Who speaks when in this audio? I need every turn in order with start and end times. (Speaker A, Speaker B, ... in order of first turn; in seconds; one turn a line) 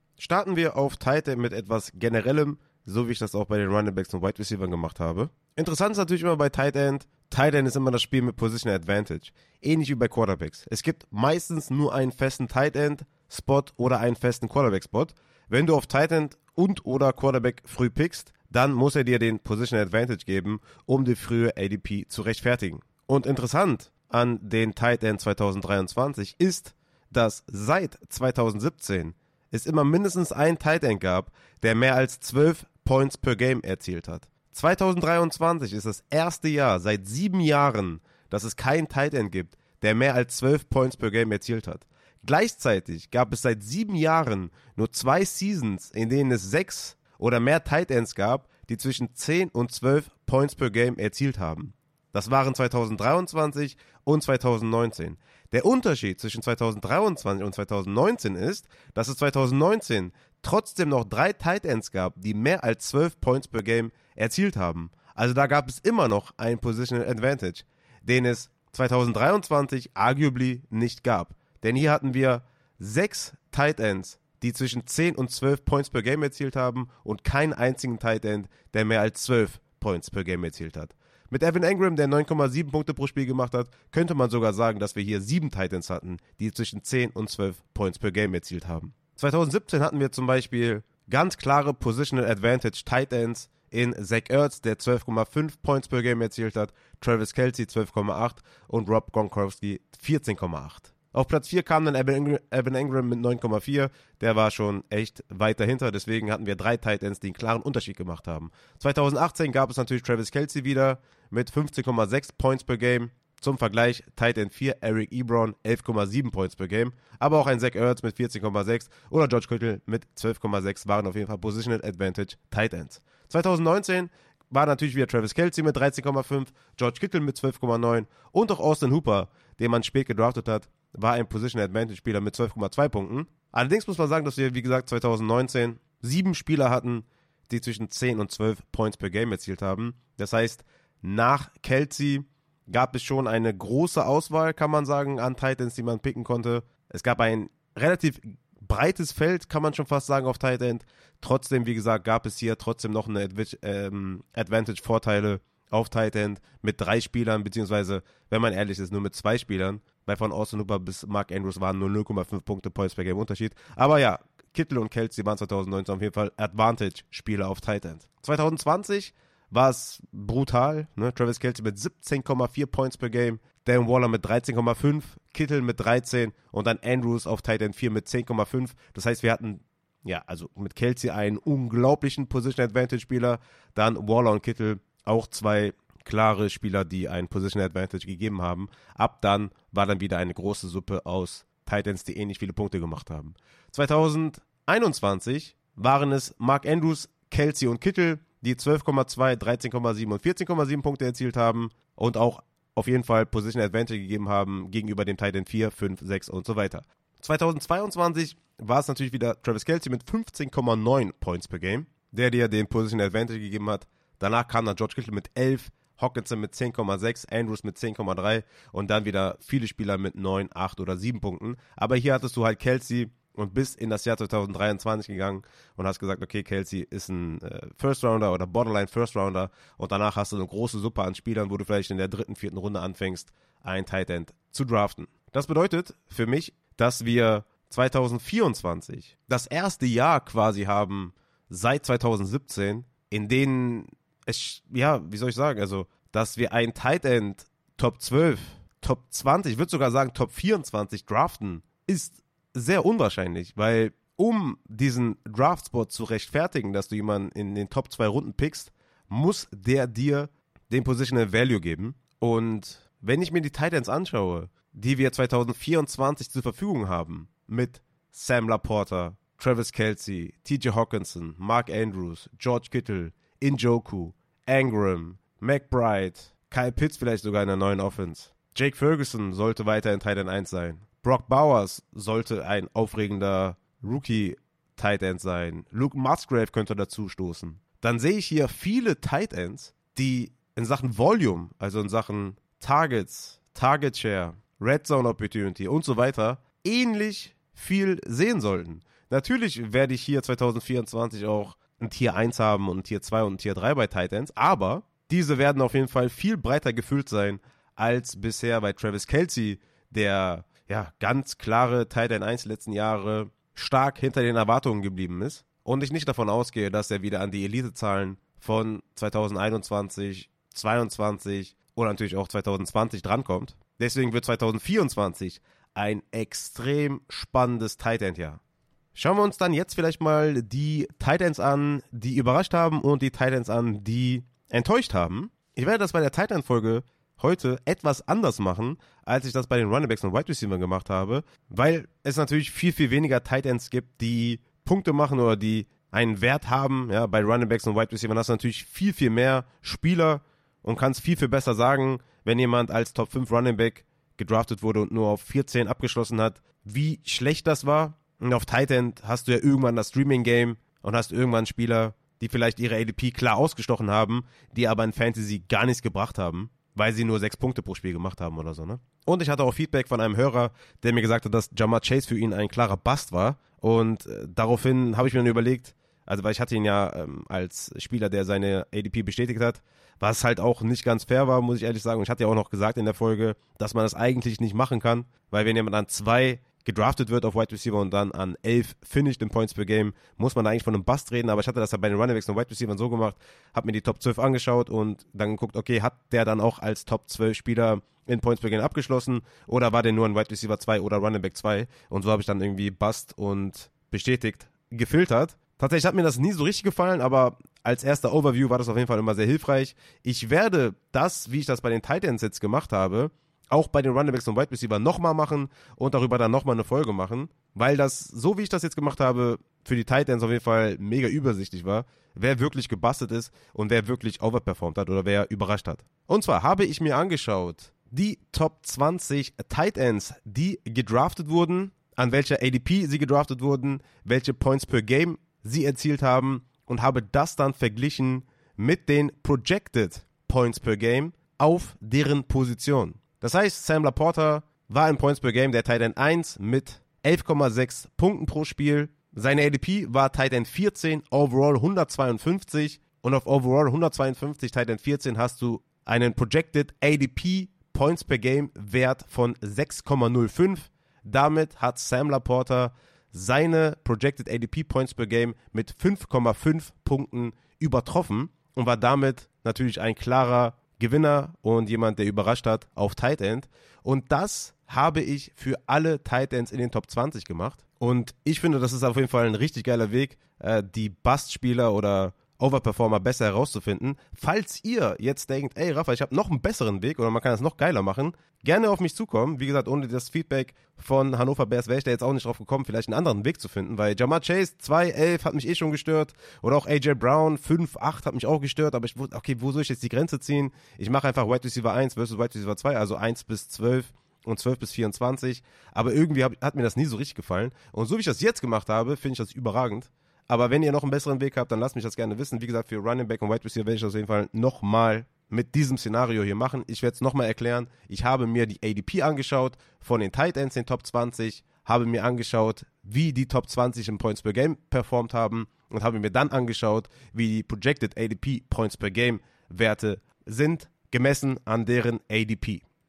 Speaker A: 0.2-328.4
Speaker A: 328.9-532.6